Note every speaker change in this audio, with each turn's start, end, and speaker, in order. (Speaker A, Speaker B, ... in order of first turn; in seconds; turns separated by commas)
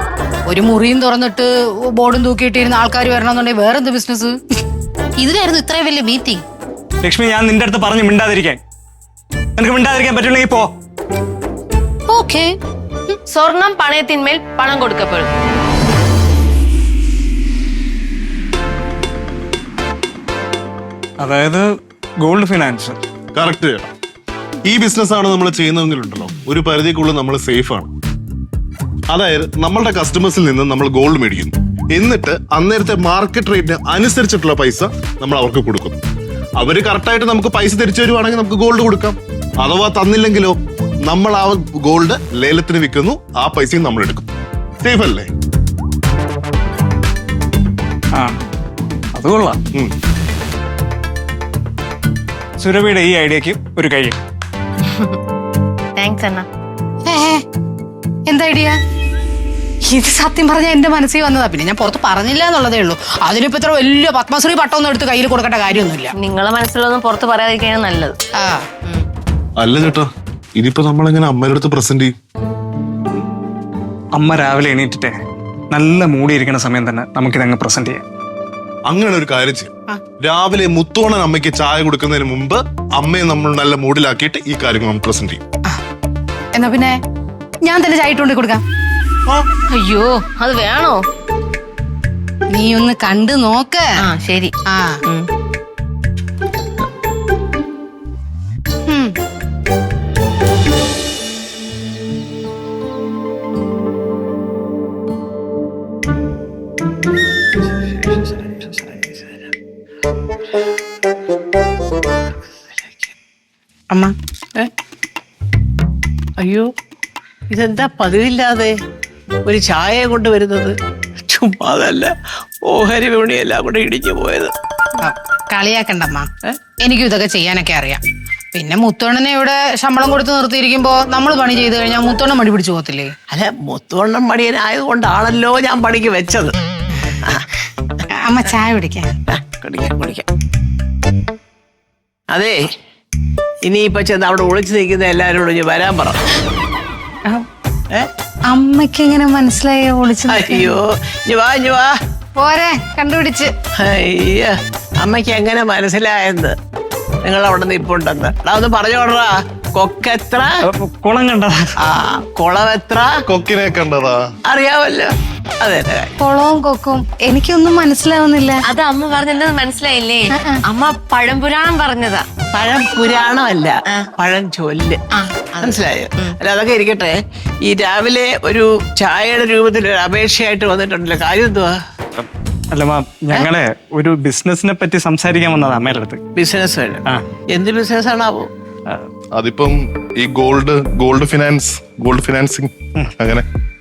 Speaker A: 0.5-4.3, Speaker A: 5.2-6.4, Speaker B: 7.0-8.6, Speaker B: 9.6-10.7, Speaker A: 12.1-12.5, Speaker C: 13.3-15.3, Speaker B: 21.2-21.7, Speaker B: 22.2-23.0, Speaker D: 23.3-23.9, Speaker D: 24.7-27.9, Speaker D: 29.1-36.0, Speaker D: 36.6-44.3, Speaker D: 44.8-45.3, Speaker B: 49.1-49.6, Speaker B: 52.6-54.2, Speaker C: 54.9-55.2, Speaker C: 56.0-56.5, Speaker A: 57.1-57.4, Speaker A: 58.3-58.8, Speaker A: 59.9-66.1, Speaker C: 66.2-68.2, Speaker A: 68.4-68.7, Speaker D: 69.6-72.1, Speaker B: 74.2-75.2, Speaker B: 75.7-78.0, Speaker D: 78.9-85.4, Speaker A: 86.5-87.0, Speaker A: 87.6-88.6, Speaker C: 89.7-91.0, Speaker A: 92.5-93.9, Speaker C: 94.0-94.5, Speaker A: 94.7-95.0, Speaker A: 98.9-99.2, Speaker E: 107.8-109.5, Speaker E: 112.6-113.1, Speaker E: 116.4-116.7, Speaker E: 117.5-118.7, Speaker E: 119.5-122.1, Speaker E: 122.7-124.5, Speaker A: 125.0-126.3, Speaker A: 126.8-128.0, Speaker A: 128.5-133.1, Speaker E: 133.3-136.5, Speaker A: 138.2-139.1, Speaker E: 139.3-140.3, Speaker E: 142.3-142.7, Speaker E: 143.6-146.2, Speaker A: 148.5-150.7, Speaker E: 150.3-151.9, Speaker A: 152.4-153.5, Speaker E: 153.8-156.5, Speaker E: 157.2-160.6, Speaker B: 160.6-161.7, Speaker E: 161.8-163.1, Speaker D: 163.3-164.2, Speaker E: 164.5-166.1, Speaker A: 166.2-168.7, Speaker C: 168.7-172.2, Speaker E: 172.5-175.0, Speaker C: 175.1-176.3, Speaker E: 175.6-181.8, Speaker B: 182.7-186.2, Speaker E: 186.4-188.5, Speaker D: 189.3-193.4